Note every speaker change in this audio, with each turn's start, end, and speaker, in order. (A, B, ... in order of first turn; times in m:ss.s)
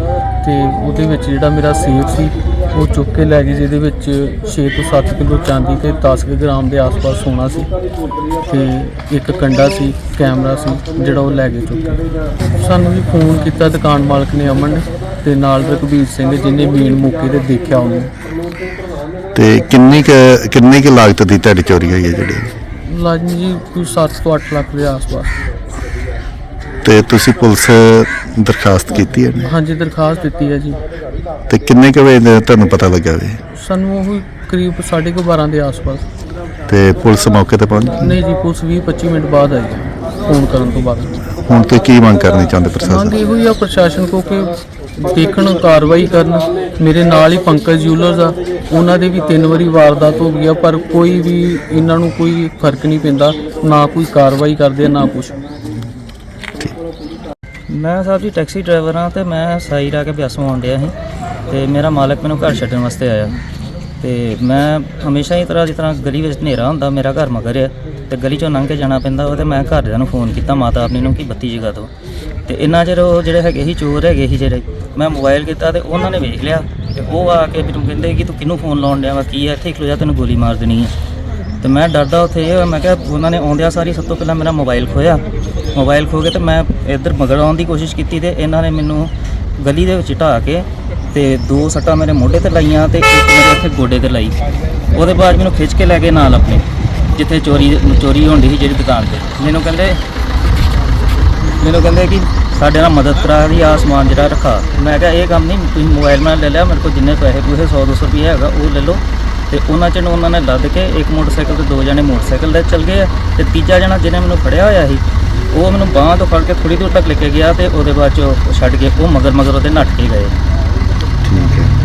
0:00.4-0:07.7 A
0:08.4-0:11.9 A
0:12.5-0:18.1 A
0:19.3-0:22.5 B
0:22.8-0:25.3 A
0:26.8-0:29.5 B
0:29.4-0:30.8 A
0:31.5-0:33.4 B
0:33.5-0:36.0 A
0:36.7-0:38.2 B
0:37.9-0:41.2 A
0:41.4-0:43.1 B
0:42.8-0:55.3 A
0:57.7-1:00.9 C
1:01.5-1:03.4 C
1:04.0-1:11.9 C
1:12.5-1:20.9 C
1:21.6-1:25.2 C
1:25.7-1:34.4 C
1:34.9-1:40.0 C
1:41.6-2:00.3 C
2:01.2-2:01.7 B